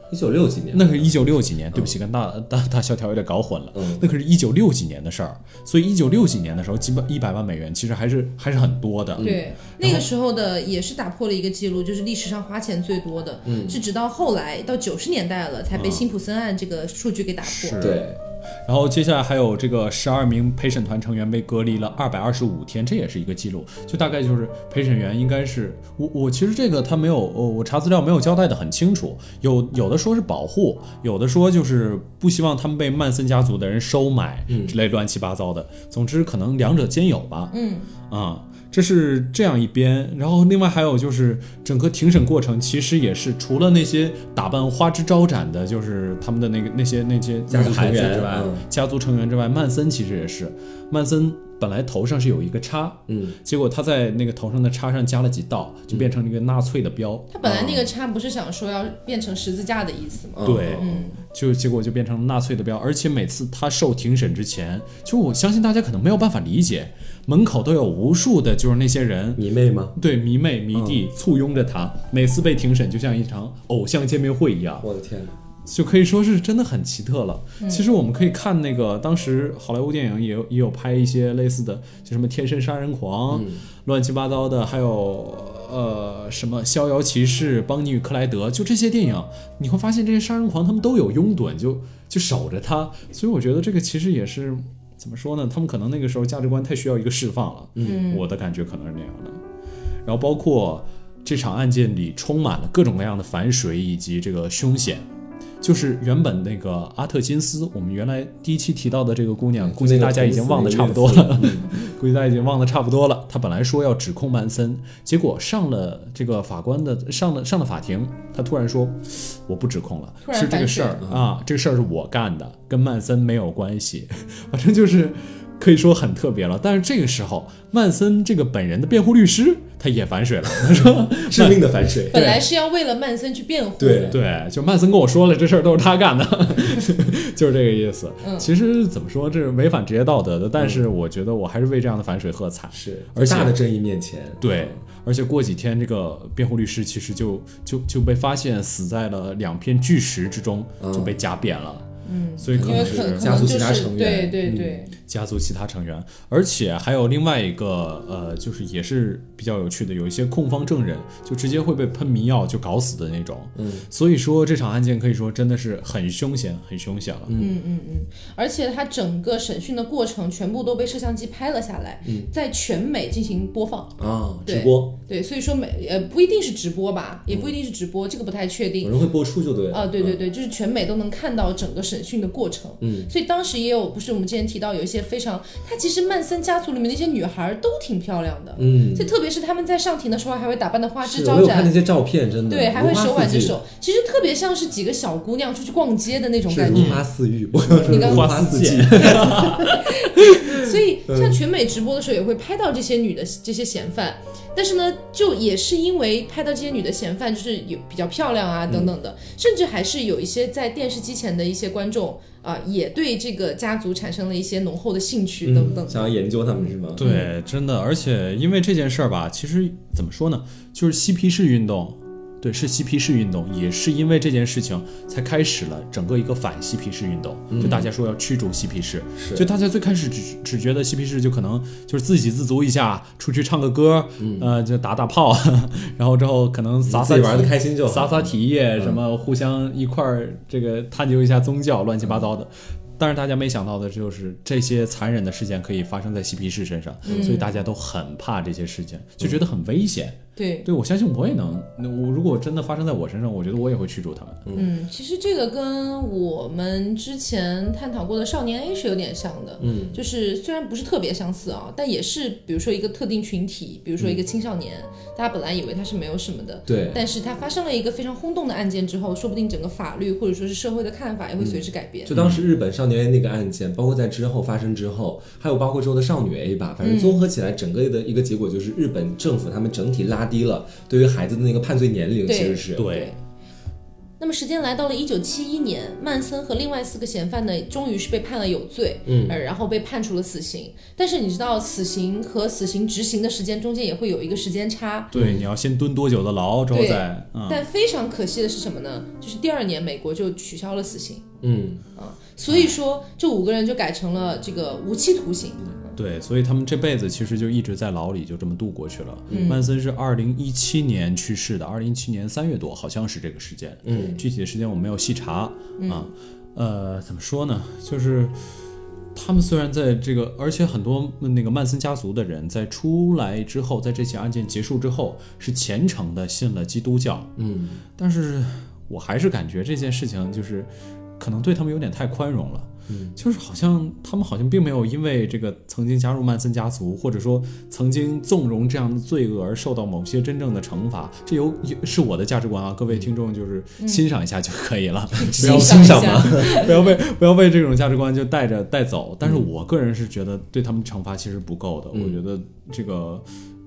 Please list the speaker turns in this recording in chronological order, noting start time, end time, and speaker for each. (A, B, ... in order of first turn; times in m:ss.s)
0:00.1-0:01.9 A
0:00.7-0:10.0 B
0:03.7-0:04.0 A
0:09.2-0:17.8 C
0:13.4-0:13.8 A
0:15.7-0:16.0 B
0:17.4-0:18.0 B
0:17.8-0:18.2 A
0:18.6-0:37.5 B
0:34.5-0:34.8 A
0:37.5-0:37.9 C
0:38.1-0:57.3 B
0:47.5-0:48.6 A
0:53.1-0:53.3 A
0:57.3-1:01.2 C
0:57.4-0:57.9 A
1:00.4-1:00.9 A
1:00.4-1:09.4 B
1:09.4-1:09.9 A
1:10.0-1:14.9 B
1:10.7-1:11.0 A
1:14.8-1:15.3 A
1:15.6-1:39.4 B
1:17.6-1:17.8 C
1:23.3-1:23.6 A
1:37.8-1:38.2 C
1:40.0-1:45.0 B
1:45.6-2:12.4 B
1:49.6-1:51.7 A
2:00.2-2:01.0 C
2:10.7-2:12.2 A
2:12.1-2:14.2 C
2:13.8-2:14.2 A
2:14.1-2:23.6 B
2:18.2-2:18.5 C
2:20.6-2:20.8 A
2:22.7-2:24.8 A
2:24.4-2:31.8 B
2:30.8-2:31.1 A
2:32.0-2:34.9 C
2:32.4-2:33.6 B
2:32.5-2:34.8 A
2:35.0-2:47.4 B
2:43.6-2:43.8 A
2:47.3-2:47.5 A
2:47.4-2:58.9 C
2:52.0-2:52.3 A
2:54.0-2:54.9 A
2:58.8-3:00.2 A
2:59.7-3:11.7 C
3:02.8-3:03.1 A
3:08.6-3:09.1 A
3:11.0-3:13.6 A
3:12.5-3:17.0 C
3:16.5-3:19.7 A
3:16.7-3:17.0 B
3:17.7-3:20.4 B
3:17.8-3:18.4 C
3:19.0-3:36.1 C
3:21.1-3:21.4 A
3:28.7-3:28.9 A
3:35.4-3:37.0 A
3:37.0-4:14.4 B
3:37.0-3:37.3 C
3:47.5-3:47.9 A
3:49.2-3:49.5 A
3:54.2-3:54.5 A
3:56.8-3:59.0 A
4:07.0-4:07.4 A
4:07.1-4:07.5 C
4:10.4-4:10.7 C
4:14.5-4:32.2 C
4:19.6-4:20.0 A
4:26.7-4:27.0 A
4:31.4-4:42.9 A
4:32.1-4:32.4 B
4:36.8-4:37.2 C
4:42.2-4:43.2 C
4:42.7-4:43.1 B
4:44.2-4:55.1 C
4:49.1-4:49.4 A
4:55.1-4:57.6 B
4:55.1-4:55.4 A
4:56.7-5:01.2 C
5:01.4-5:01.8 A
5:02.0-5:05.9 C
5:06.0-5:18.4 B
5:09.3-5:09.6 A
5:09.3-5:09.6 C
5:13.8-5:14.2 A
5:15.8-5:16.1 C
5:19.1-5:27.3 B
5:27.4-5:27.8 A
5:28.0-5:53.2 B
5:32.9-5:33.2 A
5:43.8-5:44.0 C
5:45.2-5:46.8 C
5:45.3-5:46.6 A
5:51.9-5:52.2 A